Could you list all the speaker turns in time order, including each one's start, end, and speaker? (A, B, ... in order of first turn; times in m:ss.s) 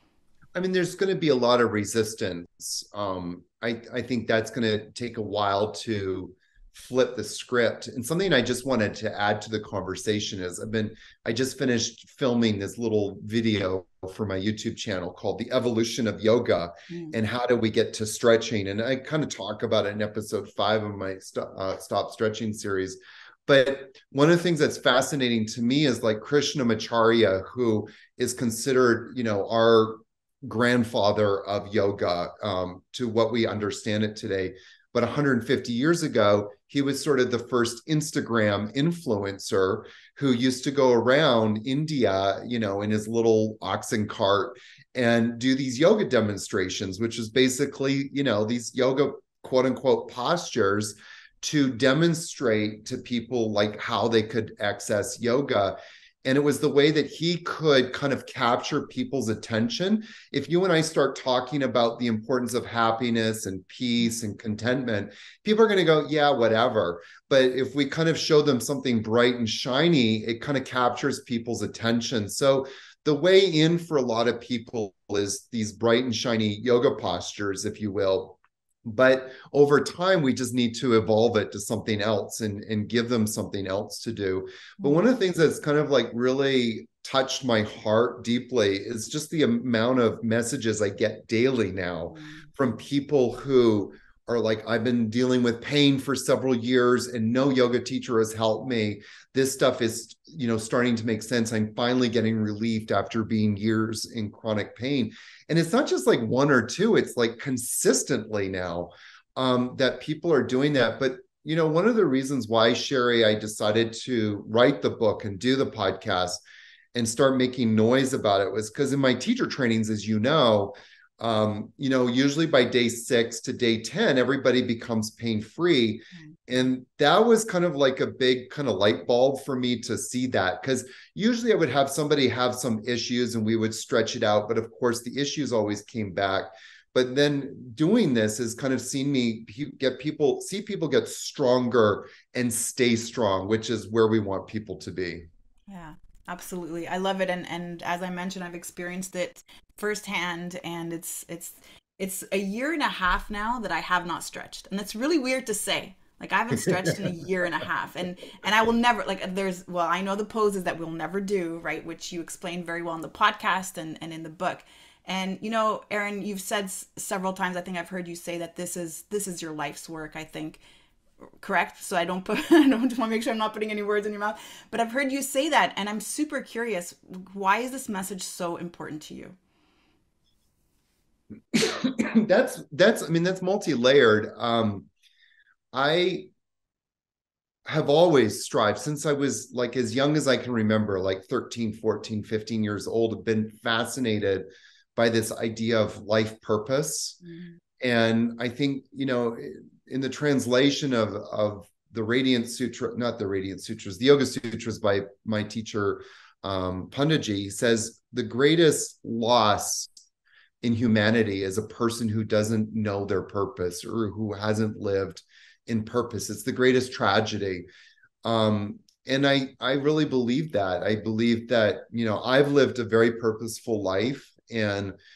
0:00.6-1:56.4 A
0:16.9-0:17.2 B
1:32.1-1:32.4 B
1:56.9-2:25.3 A
2:25.7-2:50.6 B
2:36.6-2:37.0 A
2:51.4-2:59.4 B
3:01.5-3:04.9 A
3:05.7-3:06.3 A
3:07.7-3:17.2 A
3:17.2-3:17.6 B
3:17.8-3:29.9 A
3:30.6-3:37.7 A
3:38.2-3:45.0 A